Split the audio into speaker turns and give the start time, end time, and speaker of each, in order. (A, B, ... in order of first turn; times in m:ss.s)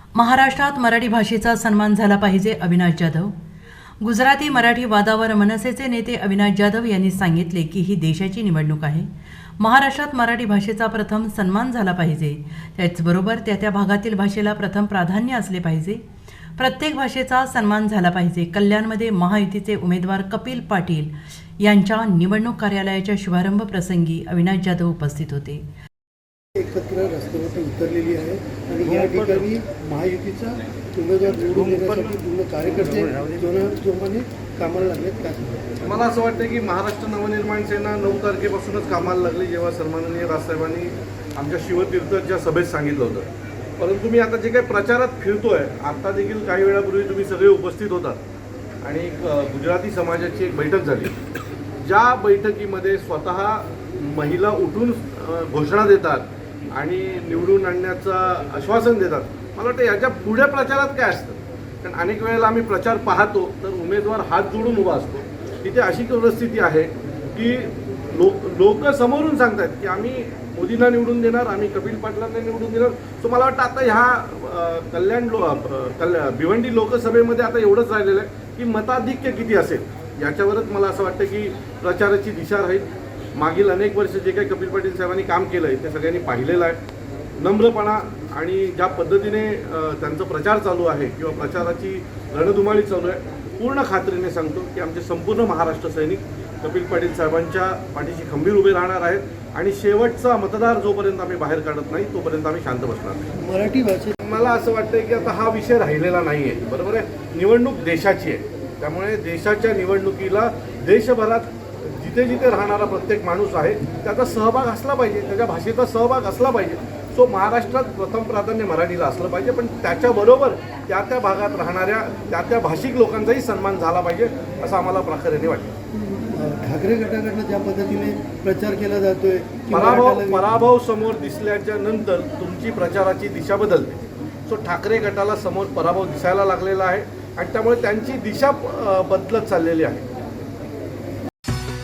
0:00.2-0:03.3 A
0:04.0-0:09.1 A
0:09.6-0:16.0 A
0:16.6-0:25.6 A
0:26.6-0:35.9 B
0:35.8-0:48.2 C
0:48.8-0:51.2 C
0:51.8-1:26.8 C
1:27.4-1:43.3 C
1:43.4-1:44.2 B
1:44.2-2:05.7 C
2:06.0-2:10.6 B
2:09.7-2:20.1 C